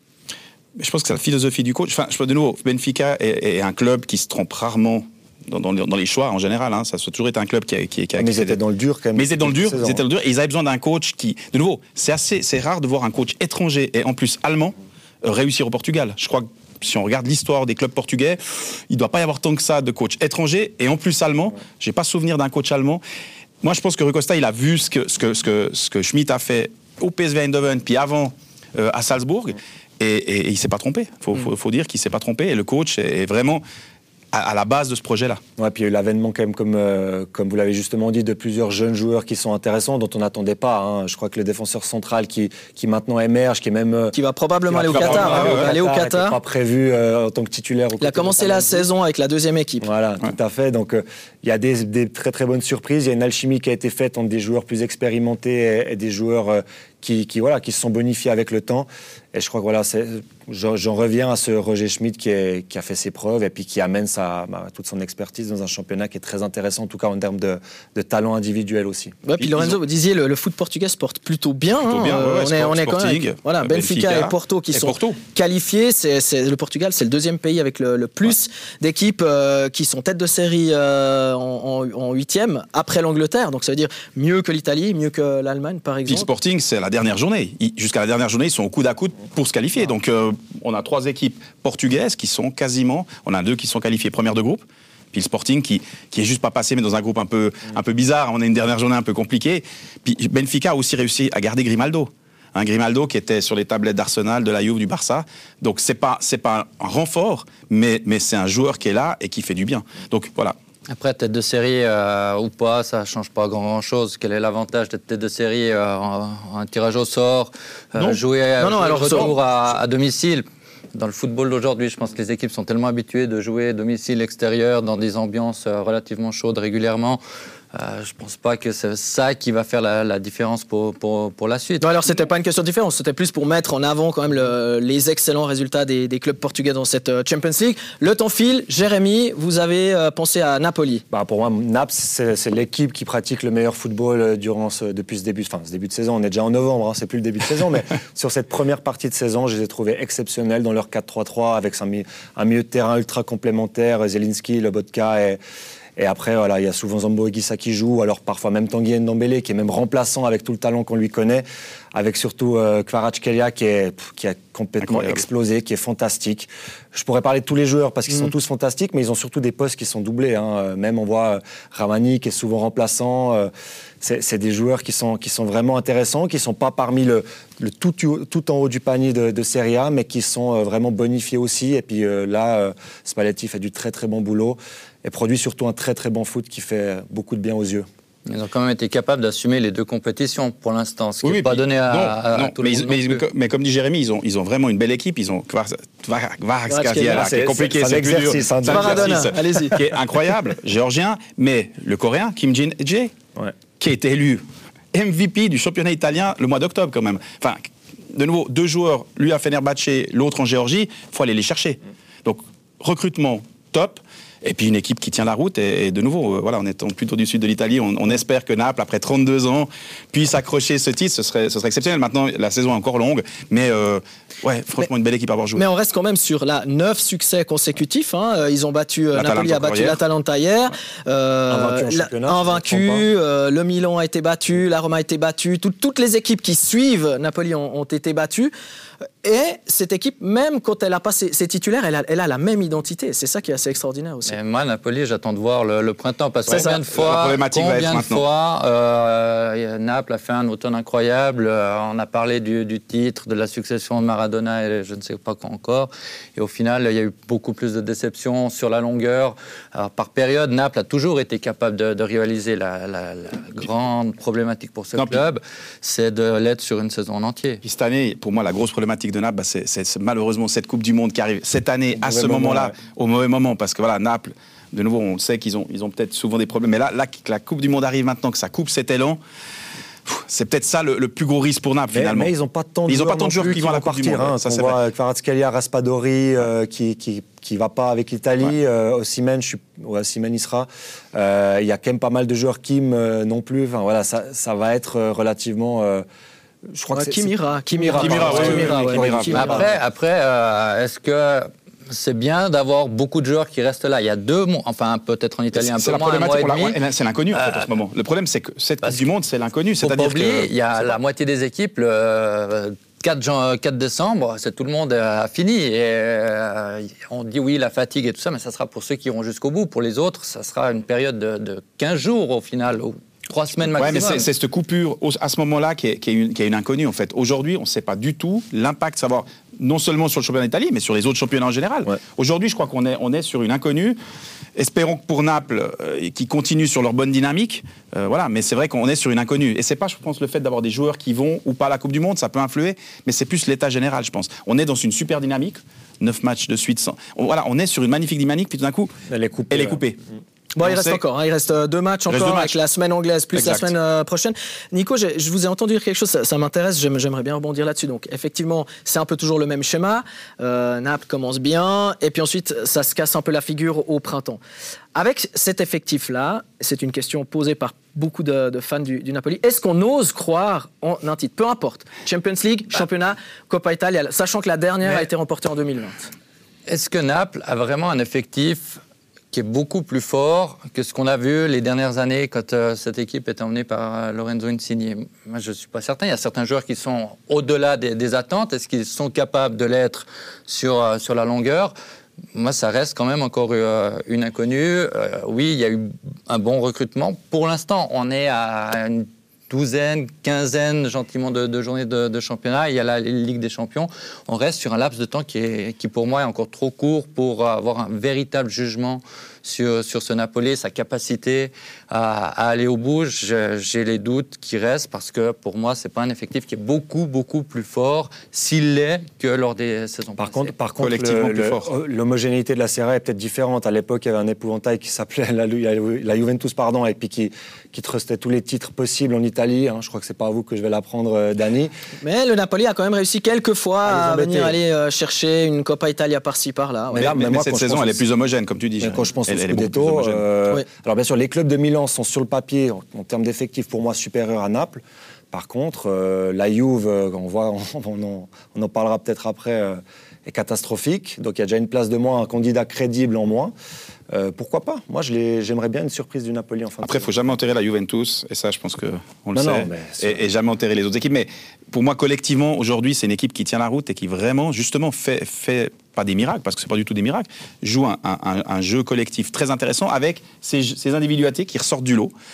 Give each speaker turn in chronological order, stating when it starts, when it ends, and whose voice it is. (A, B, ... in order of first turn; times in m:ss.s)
0:00.8-0:08.6 A
0:08.2-0:10.0 B
0:09.2-0:23.0 A
0:23.6-0:33.6 A
0:34.3-0:35.4 A
0:35.6-0:44.2 B
0:44.1-0:46.4 C
0:44.7-0:48.9 B
0:44.9-0:45.7 A
0:48.0-0:49.9 C
0:49.8-1:09.1 B
1:09.2-1:26.3 C
1:09.4-1:09.8 A
1:11.8-1:15.2 A
1:26.1-1:50.6 A
1:50.9-2:07.2 D
1:58.6-1:59.3 C
2:07.7-2:12.1 D
2:11.8-2:21.0 C
2:21.1-2:35.4 B
2:36.0-2:53.5 B
2:44.8-2:45.2 A
2:54.0-3:07.8 B
3:08.2-3:13.2 D
3:11.2-3:23.1 A
3:16.7-3:17.3 C
3:17.1-3:19.3 B
3:18.7-3:19.8 C
3:23.8-3:24.4 A
3:24.9-3:45.6 A
3:45.6-3:58.5 C
3:49.1-3:50.0 A
3:51.5-3:53.0 B
3:59.2-4:04.3 C
4:04.2-4:27.6 D
4:06.5-4:08.2 A
4:06.5-4:06.8 C
4:25.0-4:25.2 A
4:27.6-4:39.2 A
4:32.0-4:32.7 B
4:40.0-4:42.3 A
4:41.9-4:56.0 B
4:42.9-4:44.8 A
4:56.7-4:59.7 B
4:56.9-4:59.7 C
4:57.9-4:59.6 A
4:58.3-4:58.8 D
4:59.3-5:06.8 D
5:05.5-5:11.0 A
5:07.3-5:07.7 D
5:09.8-5:24.3 D
5:23.8-5:34.0 A
5:34.6-5:48.9 A
5:49.1-5:49.8 B
5:49.5-5:50.0 A
5:50.6-6:04.4 C
5:50.6-5:51.0 A
5:52.1-5:52.6 A
5:53.3-5:53.7 A
6:04.9-6:16.0 C
6:16.7-6:18.8 D
6:19.3-6:31.7 D
6:32.3-7:00.5 D
7:00.2-7:11.7 B
7:00.8-7:01.7 A
7:12.0-7:17.1 C
7:13.8-7:14.6 B
7:16.9-7:18.0 B
7:17.0-7:20.2 A
7:18.8-7:33.5 B
7:34.1-7:37.3 B
7:36.8-7:52.1 A
7:39.3-7:40.2 B